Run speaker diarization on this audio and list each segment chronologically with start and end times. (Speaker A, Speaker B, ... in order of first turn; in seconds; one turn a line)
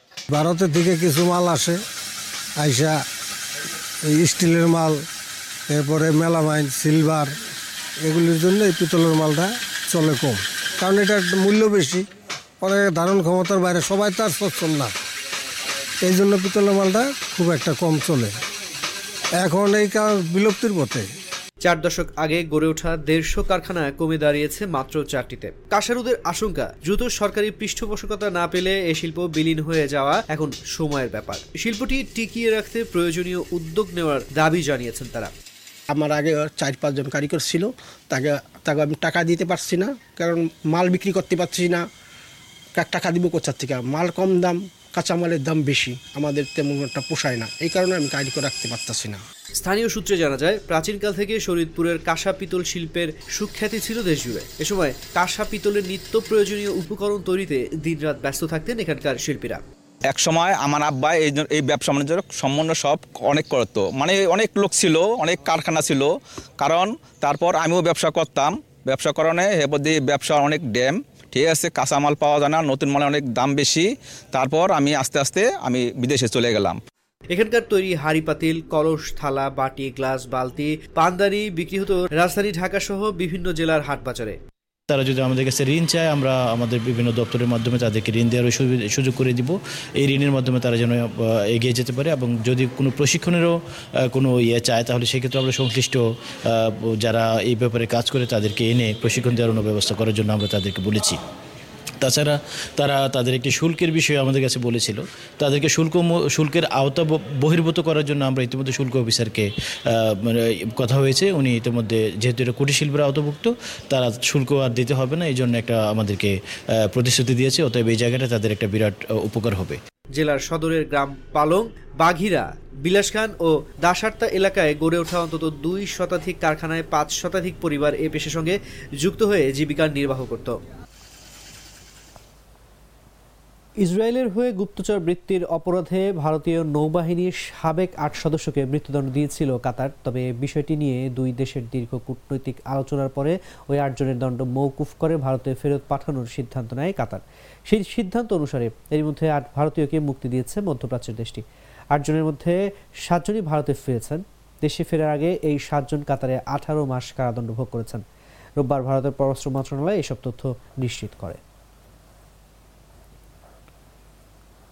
Speaker A: 0.3-1.8
Speaker A: 2.6-3.0
Speaker A: 4.1-5.0
Speaker A: 5.7-7.3
Speaker A: 8.0-12.1
Speaker A: 12.6-14.9
Speaker A: 16.0-18.3
Speaker A: 19.4-21.1
Speaker B: 21.6-35.3
Speaker C: 35.9-41.9
Speaker C: 42.7-49.2
Speaker B: 49.5-59.6
Speaker D: 60.1-76.8
Speaker B: 77.3-84.4
Speaker E: 84.9-93.5
Speaker E: 94.1-101.2
Speaker E: 102.0-116.3
Speaker E: 116.9-119.8
Speaker B: 120.1-130.6
Speaker B: 133.8-158.0
Speaker B: 158.6-161.4